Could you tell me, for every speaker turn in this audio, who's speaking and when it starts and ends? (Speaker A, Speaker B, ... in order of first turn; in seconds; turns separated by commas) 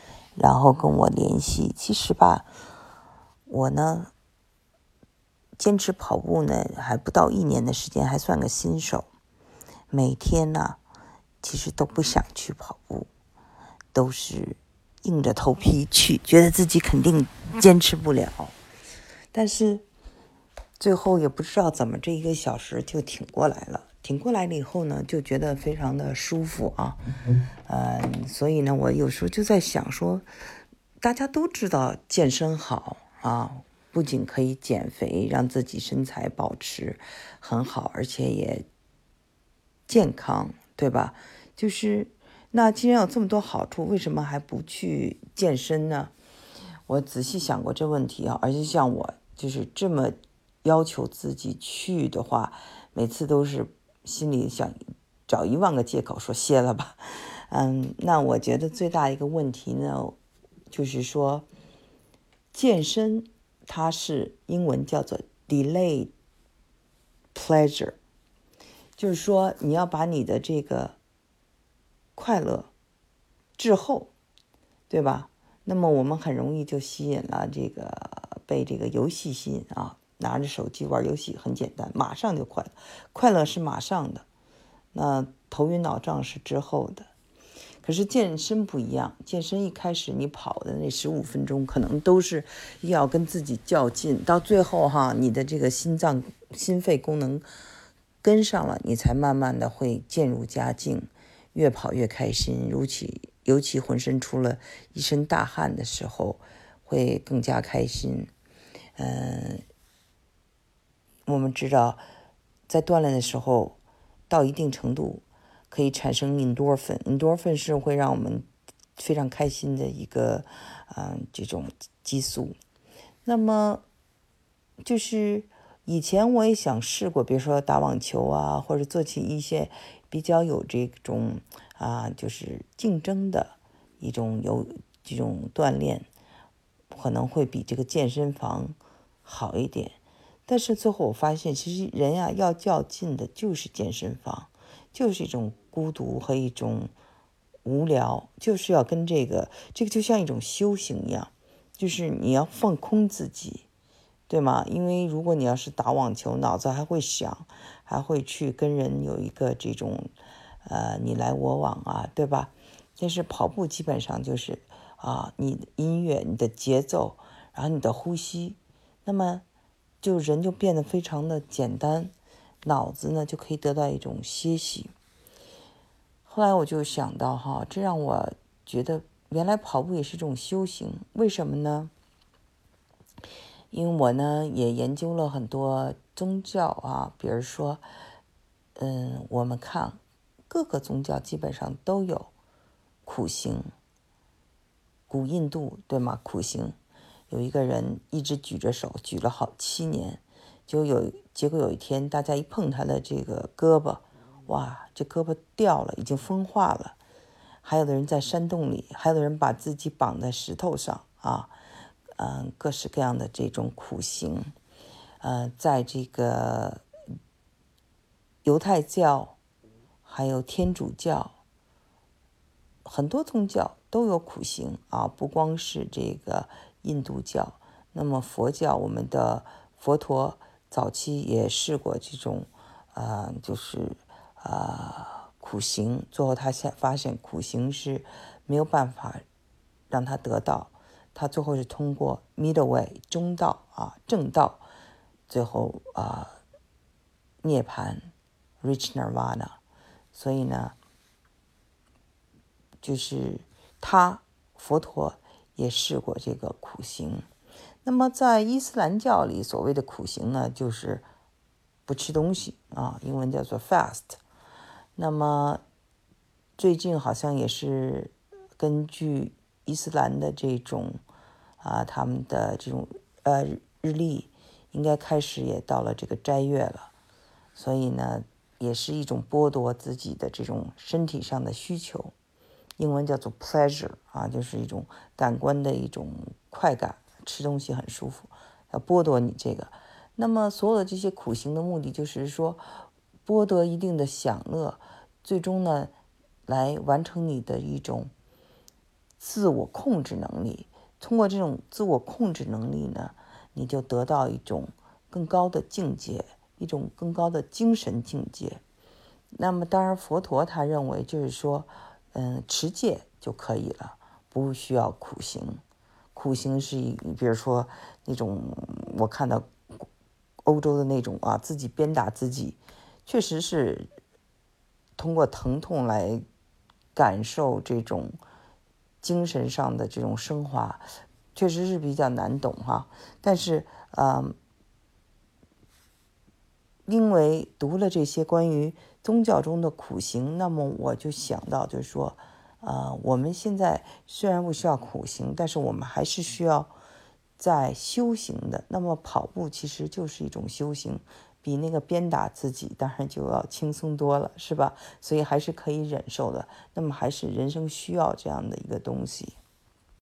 Speaker A: 0.4-2.5, Speaker A: 3.5-4.1, Speaker A: 5.6-9.1, Speaker A: 9.9-10.8, Speaker A: 11.4-13.1, Speaker A: 13.9-18.5, Speaker A: 19.3-19.9, Speaker A: 20.8-27.0, Speaker A: 27.7-30.3, Speaker A: 31.0-38.7, Speaker A: 39.9-46.1, Speaker A: 46.9-60.2, Speaker A: 60.7-61.5, Speaker A: 62.5-66.1, Speaker A: 67.3-68.0, Speaker A: 69.0-71.0, Speaker A: 72.2-72.7, Speaker A: 73.6-74.1, Speaker A: 74.9-84.2, Speaker A: 84.9-87.1, Speaker A: 87.8-97.5, Speaker A: 98.2-108.3, Speaker A: 109.0-109.6, Speaker A: 111.3-112.0, Speaker A: 112.7-113.8, Speaker A: 114.3-122.6, Speaker A: 123.2-123.8, Speaker A: 124.8-136.1, Speaker A: 136.9-146.9, Speaker A: 147.7-153.7, Speaker A: 154.3-160.1, Speaker A: 160.7-169.4, Speaker A: 170.0-172.1, Speaker A: 172.6-174.9, Speaker A: 176.3-181.9, Speaker A: 183.7-187.9, Speaker A: 188.8-190.0, Speaker A: 190.5-192.3, Speaker A: 193.1-193.7, Speaker A: 195.1-196.8, Speaker A: 197.3-207.0, Speaker A: 207.6-211.5, Speaker A: 212.2-214.5, Speaker A: 215.2-216.8, Speaker A: 218.4-219.4, Speaker A: 220.1-221.3, Speaker A: 222.8-239.2, Speaker A: 239.9-244.6, Speaker A: 245.3-246.4, Speaker A: 247.4-249.6, Speaker A: 250.1-250.8, Speaker A: 252.8-257.3, Speaker A: 257.8-261.1, Speaker A: 261.9-264.2, Speaker A: 265.0-265.6, Speaker A: 266.6-271.0, Speaker A: 271.6-276.9, Speaker A: 277.6-282.1, Speaker A: 282.8-292.6, Speaker A: 293.3-295.9, Speaker A: 296.5-298.1, Speaker A: 299.2-308.6, Speaker A: 309.4-315.6, Speaker A: 316.1-319.9, Speaker A: 320.4-323.9, Speaker A: 325.0-326.2, Speaker A: 326.9-328.2, Speaker A: 329.0-334.4, Speaker A: 336.9-346.7, Speaker A: 347.4-359.4